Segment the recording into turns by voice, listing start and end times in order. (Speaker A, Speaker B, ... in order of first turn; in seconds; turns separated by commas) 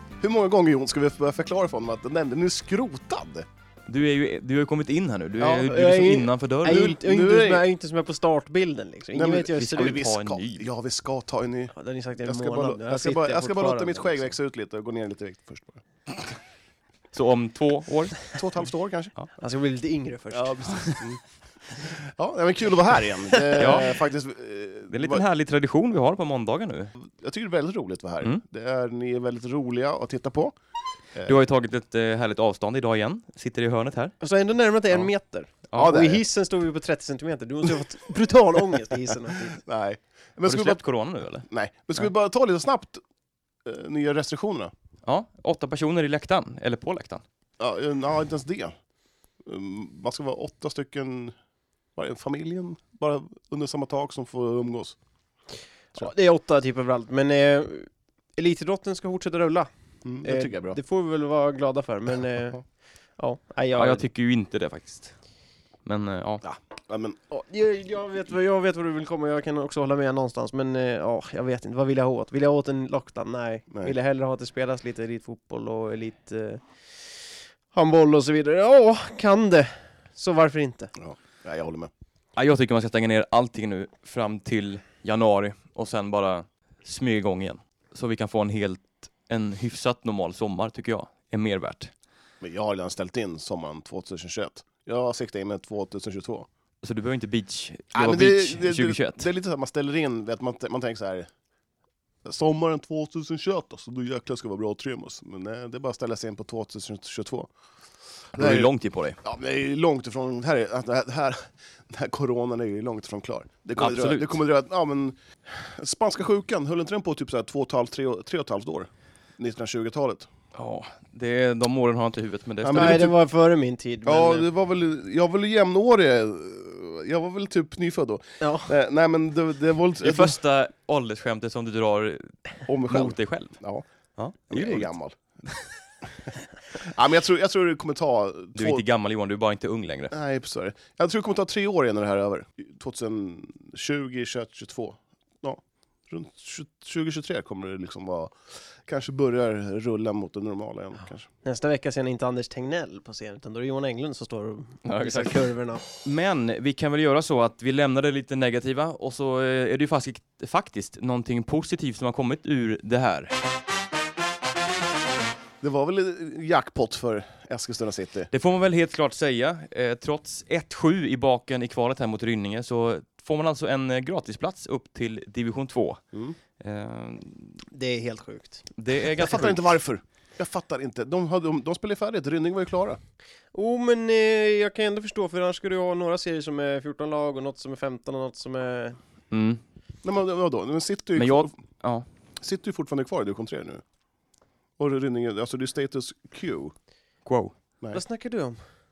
Speaker A: 0.2-3.5, Speaker B: 3.9-6.9, Speaker A: 5.4-5.7, Speaker C: 5.5-10.0, Speaker A: 6.6-7.7, Speaker A: 9.1-15.8, Speaker B: 9.5-10.7, Speaker C: 11.7-14.3, Speaker B: 17.1-18.2, Speaker A: 18.3-19.1, Speaker C: 19.4-21.0, Speaker A: 20.3-21.2, Speaker A: 21.7-25.2, Speaker B: 23.5-24.0, Speaker B: 24.9-26.9, Speaker A: 27.0-30.5, Speaker A: 31.1-31.4, Speaker B: 31.2-34.1, Speaker C: 34.2-39.6, Speaker A: 35.7-36.2, Speaker A: 39.5-40.8, Speaker B: 40.4-41.5, Speaker A: 41.5-43.0, Speaker A: 43.6-44.7, Speaker B: 45.0-47.2, Speaker A: 47.6-48.7, Speaker A: 49.4-51.4, Speaker A: 52.0-55.0, Speaker C: 55.9-59.7, Speaker A: 60.0-60.8, Speaker C: 60.2-62.6, Speaker C: 63.2-64.1, Speaker B: 63.8-65.1, Speaker B: 65.8-66.4, Speaker A: 66.4-67.2, Speaker C: 67.3-80.9, Speaker A: 81.0-81.9, Speaker B: 82.3-91.9, Speaker A: 92.4-96.5, Speaker B: 96.8-99.3, Speaker A: 97.9-101.3, Speaker A: 102.2-107.5, Speaker A: 108.3-108.7, Speaker B: 108.3-109.2, Speaker A: 109.2-120.3, Speaker B: 113.8-114.4, Speaker B: 120.5-123.1, Speaker A: 122.6-123.1, Speaker C: 122.7-124.5, Speaker A: 124.0-130.4, Speaker C: 128.4-128.7, Speaker B: 130.0-133.6, Speaker A: 132.7-133.8, Speaker B: 134.2-134.9, Speaker A: 134.5-135.2, Speaker A: 136.7-138.8, Speaker B: 138.6-140.1, Speaker A: 140.1-151.3, Speaker C: 151.4-155.8, Speaker B: 154.8-155.5, Speaker B: 156.0-163.3, Speaker A: 165.6-168.3, Speaker B: 168.3-176.0, Speaker B: 176.6-177.6, Speaker C: 177.7-178.7, Speaker B: 178.8-179.7, Speaker A: 179.2-183.0, Speaker C: 183.5-189.0, Speaker B: 189.3-189.6, Speaker A: 190.0-191.5, Speaker B: 191.2-192.1, Speaker A: 192.4-193.8, Speaker A: 194.8-196.7, Speaker B: 197.2-197.5, Speaker C: 197.9-198.6